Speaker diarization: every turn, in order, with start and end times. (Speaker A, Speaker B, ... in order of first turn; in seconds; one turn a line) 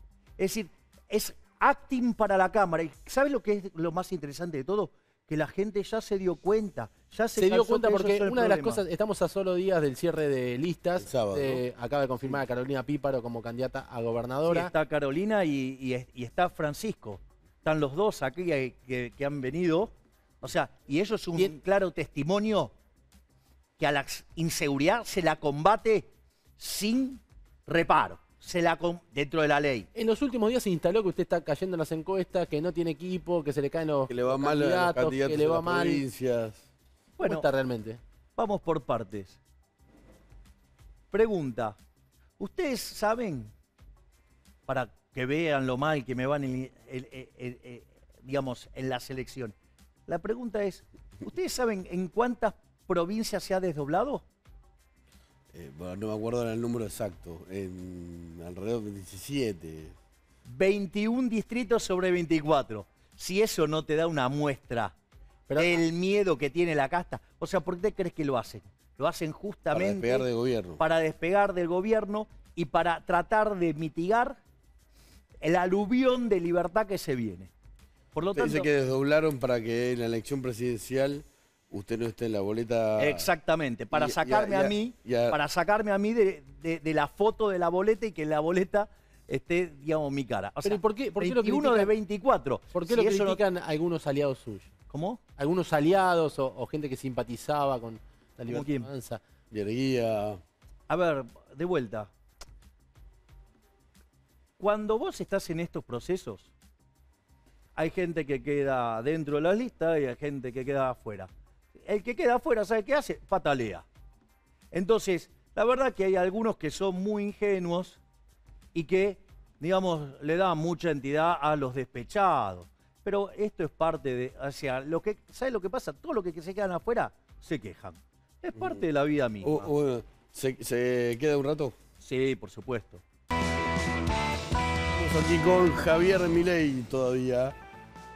Speaker A: 0.4-8.8
Speaker B: 7.4-14.7
Speaker C: 11.0-11.6
Speaker A: 14.5-22.7
Speaker A: 23.8-29.9
Speaker B: 29.9-36.0
Speaker C: 34.1-36.6
Speaker A: 37.2-37.5
Speaker B: 37.2-38.0
Speaker A: 38.4-39.4
Speaker A: 41.1-41.8
Speaker A: 42.4-43.5
Speaker A: 44.7-49.5
Speaker A: 50.1-54.2
Speaker C: 55.5-60.0
Speaker A: 60.5-64.9
Speaker B: 65.5-65.8
Speaker A: 65.6-70.3
Speaker C: 69.7-70.8
Speaker A: 70.8-74.4
Speaker A: 75.4-77.5
Speaker A: 78.1-78.7
Speaker C: 78.4-83.3
Speaker A: 83.0-93.4
Speaker C: 83.9-85.4
Speaker B: 90.6-91.9
Speaker B: 92.7-94.7
Speaker A: 94.9-95.2
Speaker B: 95.4-99.2
Speaker A: 98.5-98.9
Speaker C: 99.5-100.4
Speaker A: 100.9-102.1
Speaker A: 104.6-106.5
Speaker A: 107.8-111.3
Speaker A: 111.8-113.8
Speaker A: 114.7-118.0
Speaker A: 118.7-129.7
Speaker C: 128.6-128.8
Speaker C: 129.4-131.8
Speaker A: 132.0-133.0
Speaker C: 134.9-137.6